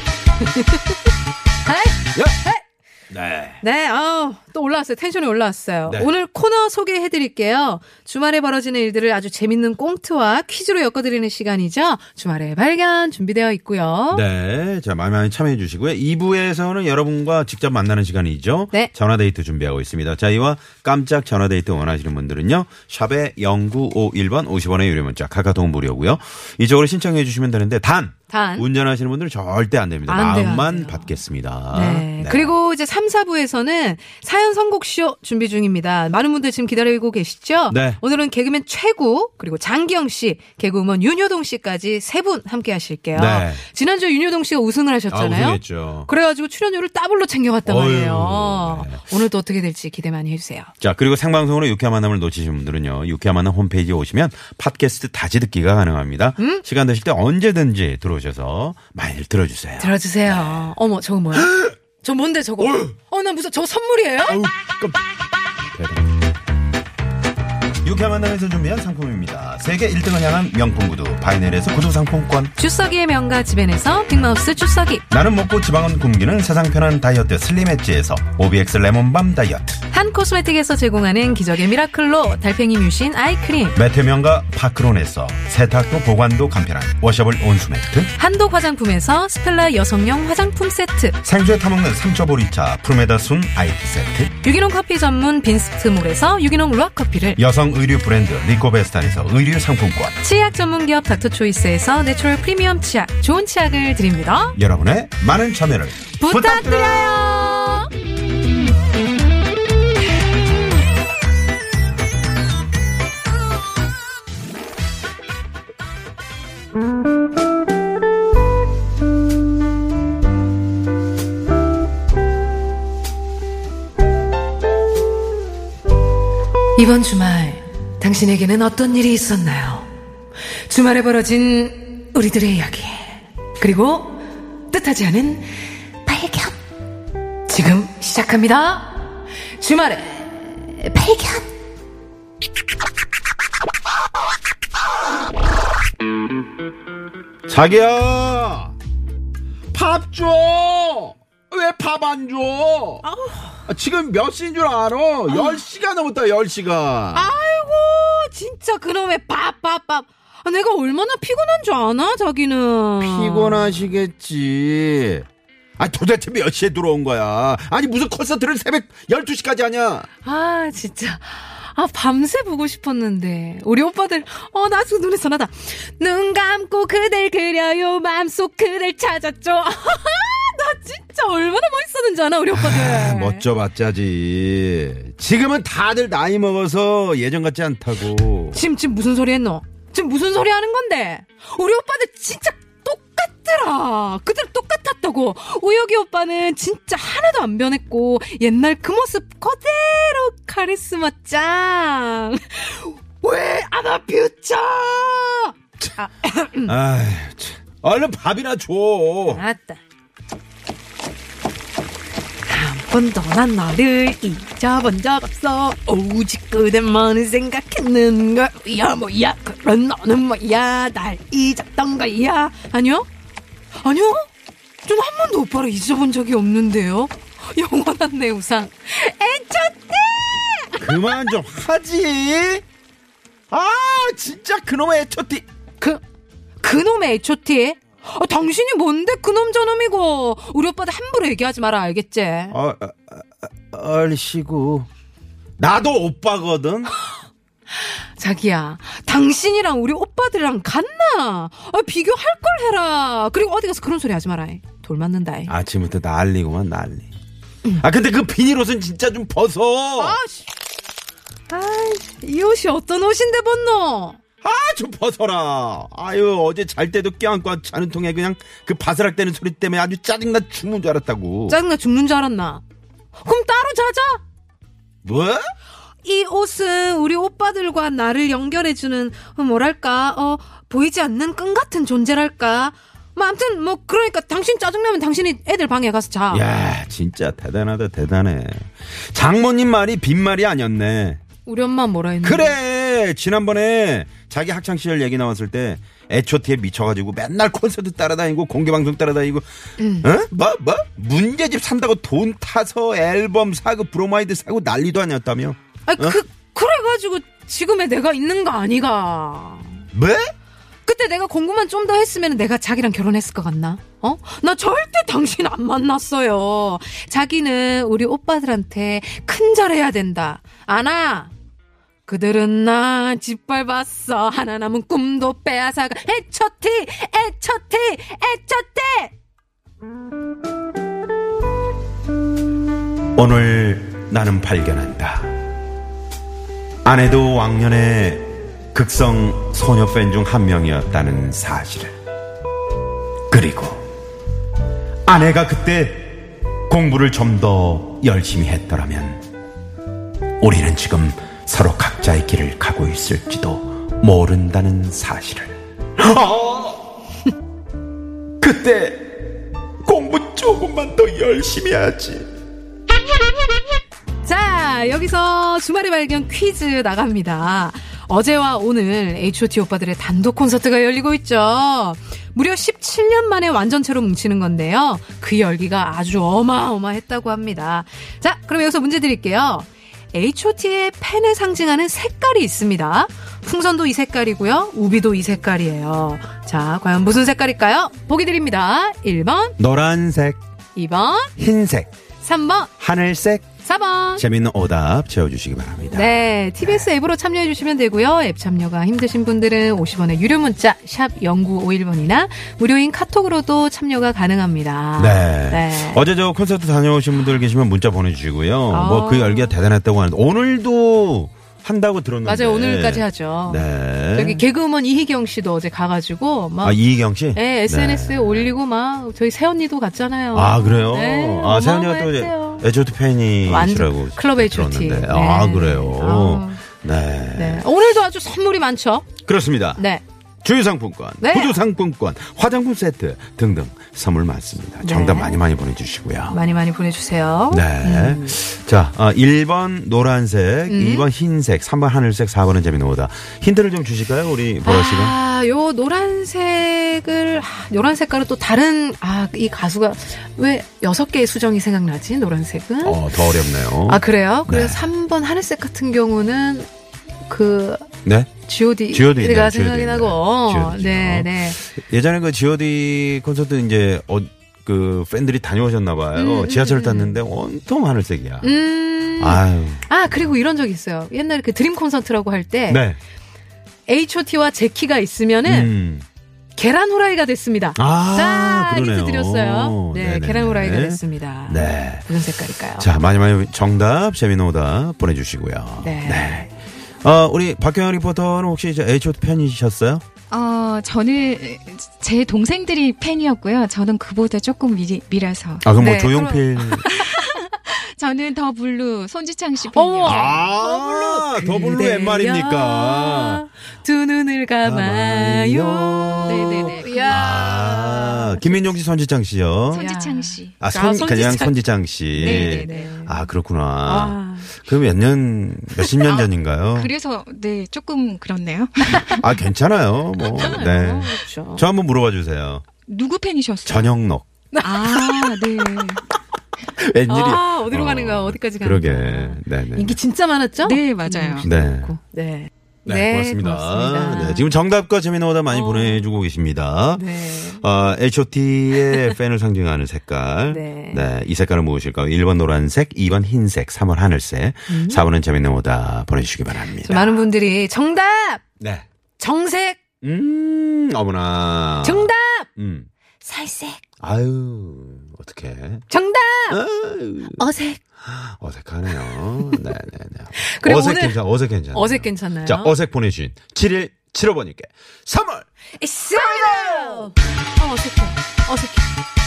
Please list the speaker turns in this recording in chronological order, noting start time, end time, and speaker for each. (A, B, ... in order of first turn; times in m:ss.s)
0:00.4-0:01.1 A
0:01.6-0:02.6 A
0:03.1-0:03.6 B
0:03.6-0:14.2 A
0:14.1-0:32.5 B
0:28.3-0:28.6 A
0:30.1-0:31.1 A
0:31.7-0:50.7 A
0:37.7-0:38.0 B
0:43.1-0:43.6 B
0:45.1-0:46.1 B
0:47.6-0:49.0 B
0:50.8-1:00.7 B
0:56.4-0:56.6 A
0:59.8-1:04.4 A
1:01.3-1:01.8 B
1:02.6-1:02.9 B
1:04.3-1:05.0 B
1:05.7-1:06.2 B
1:07.8-1:12.5 B
1:12.6-1:15.0 A
1:15.1-1:19.8 B
1:19.9-1:23.8 A
1:23.7-1:28.1 B
1:28.2-1:31.2 A
1:31.2-1:34.3 B
1:34.4-1:37.4 A
1:37.4-1:40.2 B
1:40.2-1:44.6 A
1:44.6-1:47.2 B
1:46.2-1:47.9 A
2:06.8-2:09.9 A
2:10.6-2:16.5 A
2:17.5-2:21.4 A
2:27.5-2:28.7 B
2:29.7-2:33.0 B
2:33.0-2:33.6 A
2:33.7-2:37.3 B
2:35.3-2:35.6 A
2:37.1-2:43.8 A
2:43.0-2:45.2 B
2:45.8-2:50.1 B
2:50.2-3:03.4 A
3:02.5-3:08.6 B
3:08.5-3:26.7 A
3:26.6-3:29.4 B
3:29.3-3:29.8 A
3:32.5-3:43.1 A
3:43.8-3:44.3 A
3:44.8-3:51.3 A
3:50.8-3:52.6 B
3:53.5-3:55.4 B
3:56.6-4:02.6 A
4:02.5-4:04.9 B
4:05.6-4:06.9 B
4:07.8-4:15.5 A
4:15.5-4:17.1 B
4:17.8-4:20.2 B
4:20.0-4:20.5 A
4:21.5-4:24.2 A
4:24.4-4:31.6 B
4:31.5-4:32.6 A
4:33.2-4:34.2 A
4:35.0-4:35.5 B
4:36.0-4:46.4 A
4:46.3-4:51.2 B
4:51.4-4:52.6 A
4:52.2-4:59.4 B
4:59.8-5:00.1 A
5:00.0-5:06.2 B
5:05.9-5:09.8 A
5:09.9-5:10.3 B
5:10.8-5:21.3 A
5:22.1-5:29.1 A
5:33.1-5:35.4 B
5:36.8-5:41.9 B
5:43.3-5:43.8 B
5:45.0-5:49.2 B
5:50.4-5:56.8 B
5:58.4-6:02.3 B
6:04.2-6:29.6 A
6:29.6-6:30.4 B
6:30.8-6:31.3 A
6:31.4-6:31.9 B
6:32.2-6:32.7 A
6:32.8-6:33.5 B
6:33.6-6:34.2 A
6:34.2-6:36.9 B
6:35.9-6:46.0 A
6:45.0-6:54.4 B
6:48.7-6:49.5 A
6:52.2-6:53.6 A
6:54.1-6:56.8 A
6:56.6-6:58.5 B
6:57.3-7:02.7 A
7:00.3-7:07.6 B
7:03.4-7:06.6 A
7:07.3-7:09.1 A
7:09.2-7:09.8 B
7:09.8-7:10.0 A
7:10.4-7:16.4 B
7:11.2-7:11.6 A
7:14.8-7:15.4 A
7:16.3-7:18.4 A
7:17.5-7:25.2 B
7:20.7-7:21.1 A
7:24.6-7:33.1 A
7:32.8-7:34.8 B
7:33.9-7:36.7 A
7:37.3-7:37.9 A
7:38.0-7:38.3 B
7:38.4-7:41.6 A
7:38.9-7:48.6 B
7:46.1-7:47.2 A
7:48.4-7:52.8 A
7:49.2-7:49.9 B
7:52.7-7:53.0 B
7:53.9-7:55.7 A
7:55.4-7:56.0 B
7:56.6-8:02.9 A
7:57.8-8:02.1 B
8:02.8-8:06.5 B
8:05.8-8:06.5 A
8:07.0-8:10.0 B
8:10.3-8:15.7 C
8:15.6-8:16.9 B
8:15.8-8:17.1 A
8:16.8-8:20.4 C
8:19.7-8:28.5 A
8:20.0-8:23.4 B
8:24.6-8:29.9 B
8:26.3-8:27.5 C
8:29.7-8:30.5 C
8:29.8-8:31.5 A
8:30.6-8:36.9 B
8:32.1-8:33.2 A
8:32.2-8:32.9 C
8:33.8-8:34.6 A
8:36.8-8:39.2 C
8:39.1-8:42.6 B
8:40.3-8:41.6 A
8:42.9-8:44.0 C
8:43.6-8:44.3 B
8:44.5-8:45.4 A
8:44.6-8:46.0 C
8:46.8-8:50.0 B
8:47.1-8:54.5 A
8:50.6-8:51.5 C
8:51.4-8:51.9 B
8:52.8-9:07.2 B
8:55.5-8:56.1 A
8:57.0-8:57.6 A
9:00.5-9:01.0 A
9:04.7-9:05.0 A
9:06.8-9:08.4 A
9:08.6-9:08.8 B
9:09.2-9:09.8 A
9:10.0-9:12.9 B
9:11.8-9:12.5 A
9:13.2-9:13.8 A
9:14.0-9:15.8 B
9:15.9-9:16.6 A
9:16.5-9:17.4 B
9:17.4-9:17.8 A
9:18.0-9:25.4 B
9:20.4-9:21.2 A
9:21.7-9:22.7 A
9:25.8-9:28.9 A
9:26.1-9:27.1 B